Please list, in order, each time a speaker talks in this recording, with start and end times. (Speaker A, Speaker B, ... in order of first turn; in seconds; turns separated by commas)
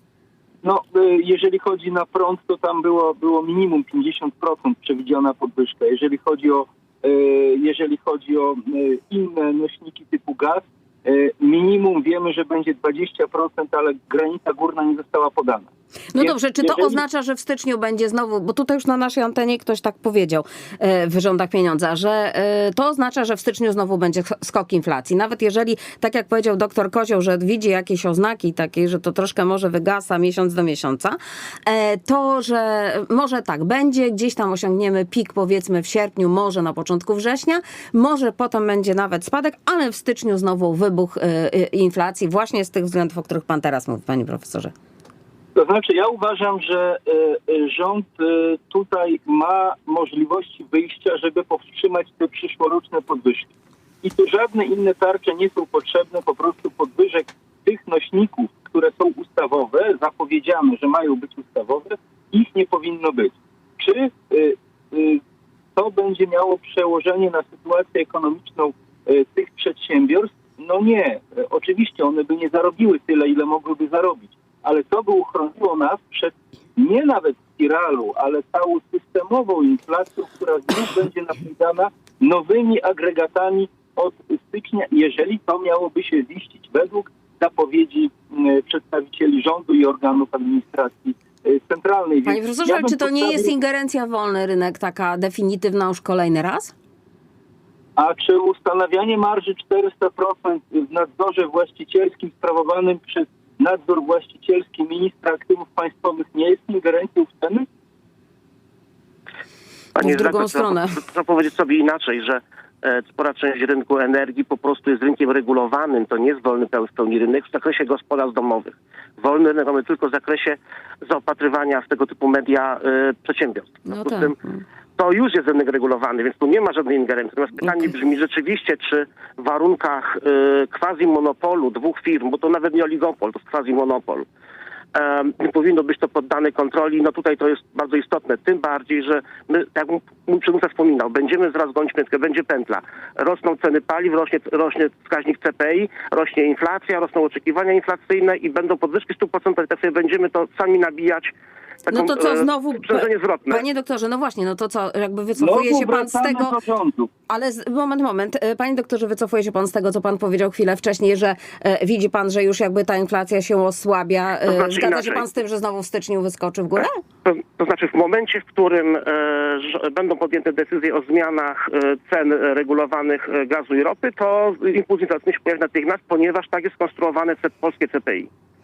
Speaker A: 0.6-17.0, Speaker B: 16.1-44.7, Speaker A: 45.5-53.5, Speaker A: 54.0-65.2, Speaker A: 65.8-93.5, Speaker B: 92.2-96.7, Speaker A: 98.0-107.7, Speaker C: 109.9-124.3, Speaker B: 110.0-111.0, Speaker B: 123.9-124.6, Speaker C: 125.0-134.2, Speaker C: 134.9-151.3, Speaker C: 151.9-153.6, Speaker B: 151.9-156.6, Speaker A: 155.4-157.1, Speaker B: 157.3-167.0, Speaker C: 164.5-165.2, Speaker C: 167.2-178.3